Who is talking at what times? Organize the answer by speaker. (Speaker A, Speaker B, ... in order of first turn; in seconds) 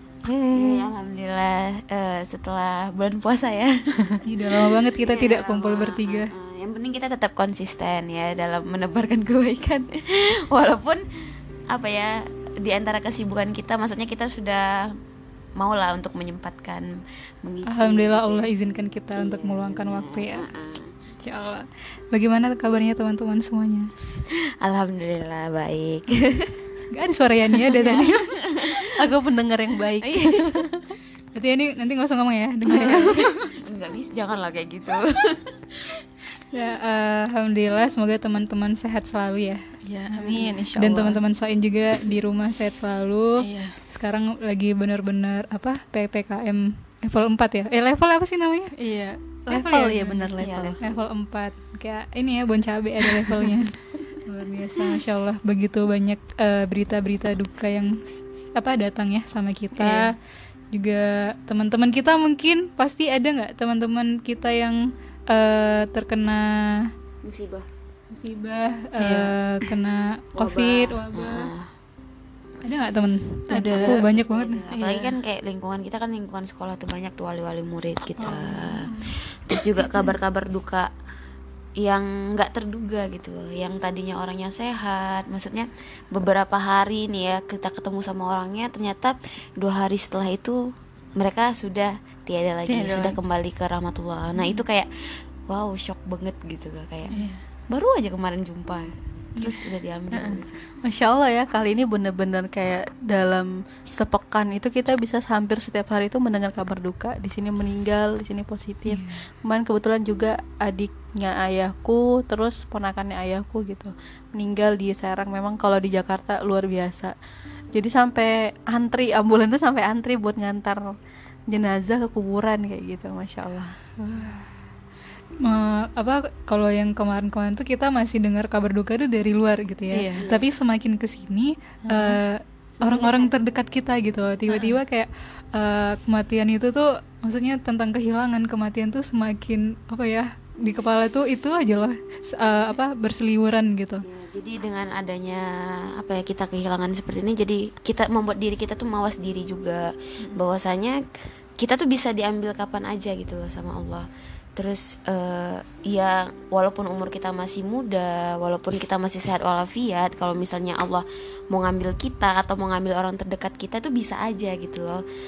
Speaker A: 0.2-4.2, 4.9-11.0, 11.7-14.9, 15.6-18.5, 19.1-20.9, 24.6-26.5, 27.7-29.0, 30.0-30.6, 32.7-35.6, 40.2-40.6, 50.4-50.9, 67.2-67.7, 70.3-71.7, 73.7-80.9, 81.8-90.6, 91.2-94.9, 95.5-97.1, 97.7-100.6, 130.2-130.5, 132.8-133.3, 144.0-151.0, 151.6-165.0
Speaker B: 4.2-6.3, 17.7-20.5, 21.2-23.9, 26.9-28.3, 31.3-33.4, 36.5-39.6, 40.8-48.7, 49.5-60.1, 60.7-66.9, 68.1-71.5, 72.6-74.6, 108.8-109.2, 124.0-124.5, 125.4-144.0
Speaker C: 29.0-30.8, 39.9-41.2, 43.4-43.8, 48.8-50.8, 53.2-53.5, 59.8-60.1, 69.0-69.7, 73.5-74.0, 74.7-75.1, 78.2-79.1, 79.8-80.1, 92.7-93.2, 94.3-94.6, 97.1-97.4, 100.1-117.1, 117.7-120.9, 121.5-123.7, 129.9-130.2, 131.9-132.2, 134.5-134.8